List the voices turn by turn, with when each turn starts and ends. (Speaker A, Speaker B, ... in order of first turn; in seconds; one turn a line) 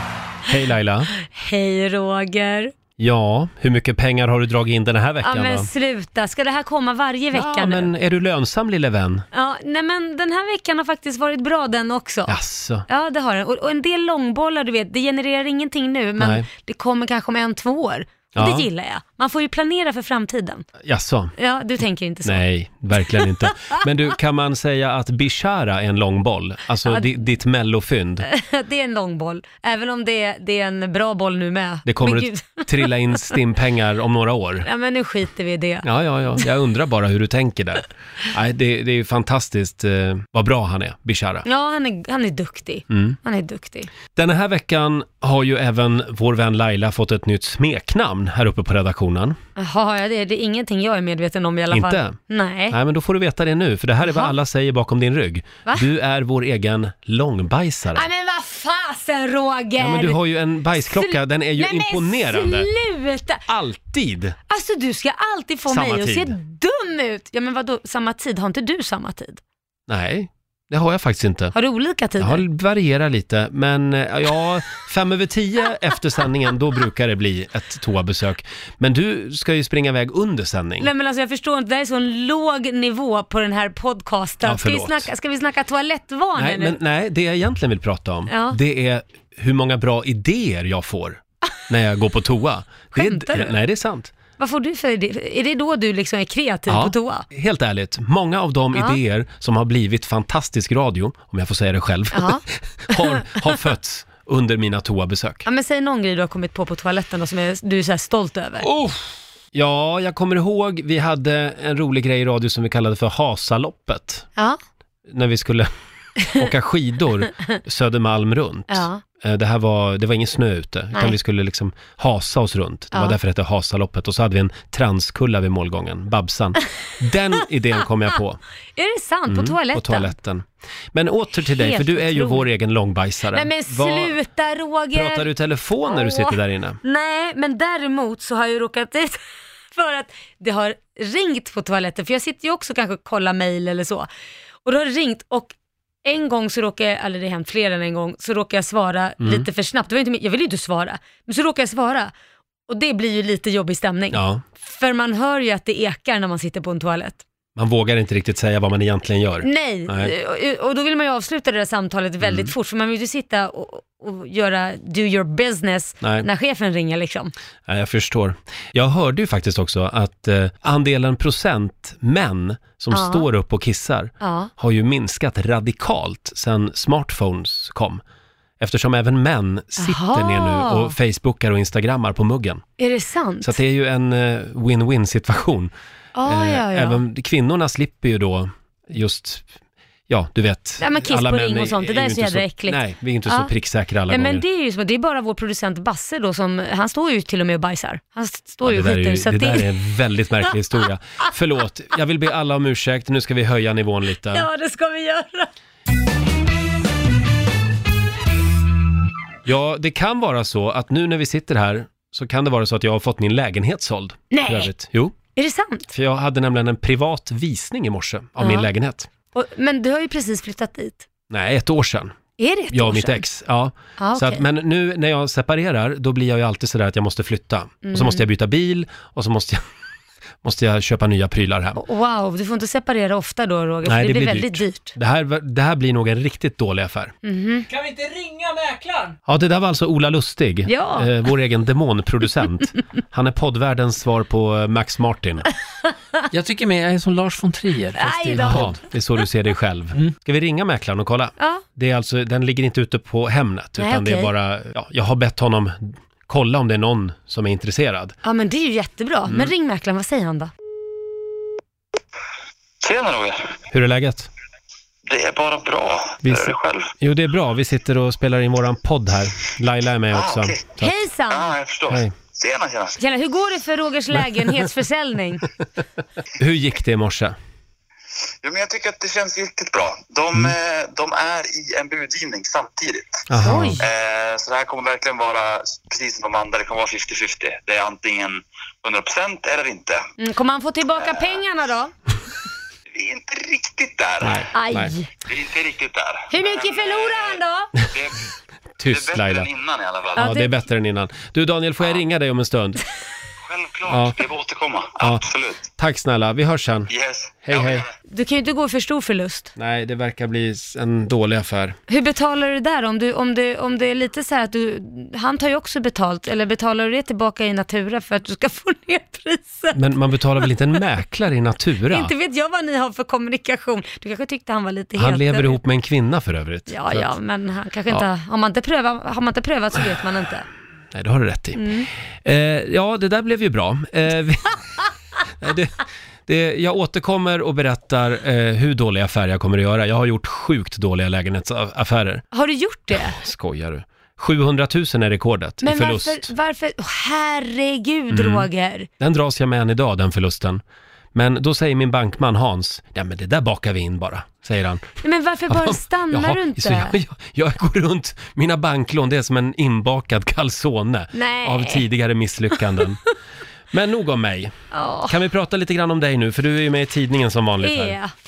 Speaker A: 0.5-1.1
Speaker B: 1.2-2.7
Speaker A: 3.0-5.7
Speaker B: 5.2-7.9
Speaker A: 7.3-9.2
Speaker B: 9.3-20.6
Speaker A: 12.3-12.8
Speaker A: 16.2-16.4
Speaker A: 18.3-18.7
Speaker A: 20.8-21.3
Speaker B: 21.4-22.4
Speaker A: 22.2-28.2
Speaker B: 23.0-23.8
Speaker B: 26.9-27.1
Speaker B: 28.2-33.3
Speaker A: 31.9-34.7
Speaker B: 34.6-35.9
Speaker A: 35.8-41.4
Speaker B: 41.4-43.9
Speaker A: 42.9-43.2
Speaker A: 44.1-49.4
Speaker B: 49.6-52.8
Speaker A: 51.7-52.2
Speaker A: 52.7-58.0
Speaker B: 54.0-54.3
Speaker B: 57.9-60.2
Speaker A: 59.8-62.7
Speaker B: 60.7-63.4
Speaker A: 63.5-64.3
Speaker B: 64.5-69.4
Speaker A: 65.7-66.3
Speaker A: 69.9-71.5
Speaker B: 71.5-72.4
Speaker A: 72.2-80.9
Speaker B: 80.8-86.8
Speaker A: 84.4-85.1
Speaker A: 86.3-94.1
Speaker B: 88.3-88.6
Speaker B: 92.9-93.6
Speaker B: 94.4-97.2
Speaker A: 96.7-105.4
Speaker B: 102.1-103.5
Speaker B: 105.4-108.7
Speaker A: 108.6-114.3
Speaker A: 115.1-115.7
Speaker A: 116.3-128.4
Speaker B: 118.7-119.0
Speaker B: 128.8-130.1
Speaker A: 129.3-134.2
Speaker B: 131.5-132.4
Speaker B: 133.3-135.3
Speaker A: 134.9-136.8
Speaker B: 135.8-139.2
Speaker B: 139.7-144.1
Speaker B: 144.6-152.1
Speaker A: 149.2-149.4
Speaker B: 152.7-157.2
Speaker A: 154.1-154.4
Speaker A: 157.6-160.1
Speaker B: 159.4-167.3
Speaker A: 162.2-162.5
Speaker A: 167.7-178.0
Speaker B: 172.9-173.3
Speaker B: 174.2-174.5
Speaker A: 178.6-182.6
Speaker B: 179.8-180.9
Speaker B: 182.8-183.6
Speaker A: 183.4-185.7
Speaker B: 186.1-187.0
Speaker A: 186.2-189.5
Speaker A: 190.1-194.4
Speaker B: 190.8-193.5
Speaker B: 194.1-199.7
Speaker A: 198.6-204.5
Speaker B: 204.3-205.5
Speaker A: 209.4-215.2
Speaker B: 214.3-214.7
Speaker B: 215.3-215.9
Speaker A: 215.9-219.1
Speaker B: 218.4-218.7
Speaker B: 219.3-221.1
Speaker A: 221.3-222.2
Speaker B: 222.4-223.2
Speaker A: 222.7-229.7
Speaker B: 224.0-224.4
Speaker B: 227.8-228.2
Speaker A: 230.4-231.8
Speaker B: 231.7-234.9
Speaker A: 233.8-237.1
Speaker B: 237.2-237.7
Speaker C: 237.7-239.2
Speaker A: 239.3-245.5
Speaker B: 240.7-241.1
Speaker C: 246.3-248.8
Speaker B: 247.9-248.8
Speaker A: 248.4-258.2
Speaker B: 251.4-251.6
Speaker B: 253.8-254.3
Speaker B: 258.2-260.5
Speaker A: 259.3-259.5
Speaker D: 262.8-263.6
Speaker A: 263.7-264.3
Speaker D: 265.1-266.9
Speaker A: 266.2-270.9
Speaker D: 270.1-270.7
Speaker B: 270.8-271.5
Speaker D: 271.3-273.0
Speaker A: 271.9-272.1
Speaker B: 273.0-275.5
Speaker A: 274.4-274.6
Speaker A: 276.4-277.3
Speaker D: 278.4-283.2
Speaker A: 283.3-283.8
Speaker B: 283.4-283.8
Speaker D: 283.8-290.0
Speaker B: 290.2-291.9
Speaker D: 292.9-294.5
Speaker A: 294.2-294.9
Speaker B: 294.5-295.1
Speaker D: 295.3-298.3
Speaker B: 296.3-297.7
Speaker A: 298.8-299.5
Speaker D: 298.9-300.2
Speaker A: 300.1-302.8
Speaker B: 300.1-300.5
Speaker D: 303.4-305.6
Speaker A: 303.9-304.2
Speaker A: 305.0-306.9
Speaker D: 306.9-307.9
Speaker A: 307.4-307.8
Speaker B: 308.1-309.5
Speaker A: 309.6-311.8
Speaker B: 311.9-319.8
Speaker A: 319.7-322.1
Speaker B: 321.9-325.6
Speaker A: 325.0-327.1
Speaker B: 326.7-330.4
Speaker A: 330.9-331.6
Speaker B: 331.6-331.9
Speaker A: 332.2-334.6
Speaker A: 335.4-342.2
Speaker B: 342.3-343.2
Speaker A: 342.9-346.3
Speaker B: 345.6-348.9
Speaker A: 348.1-348.5
Speaker A: 349.0-350.6
Speaker A: 351.1-354.9
Speaker B: 355.0-356.9
Speaker A: 355.5-363.0
Speaker B: 361.1-361.9
Speaker A: 363.7-364.5
Speaker B: 364.7-365.2
Speaker A: 365.1-368.0
Speaker B: 367.6-368.1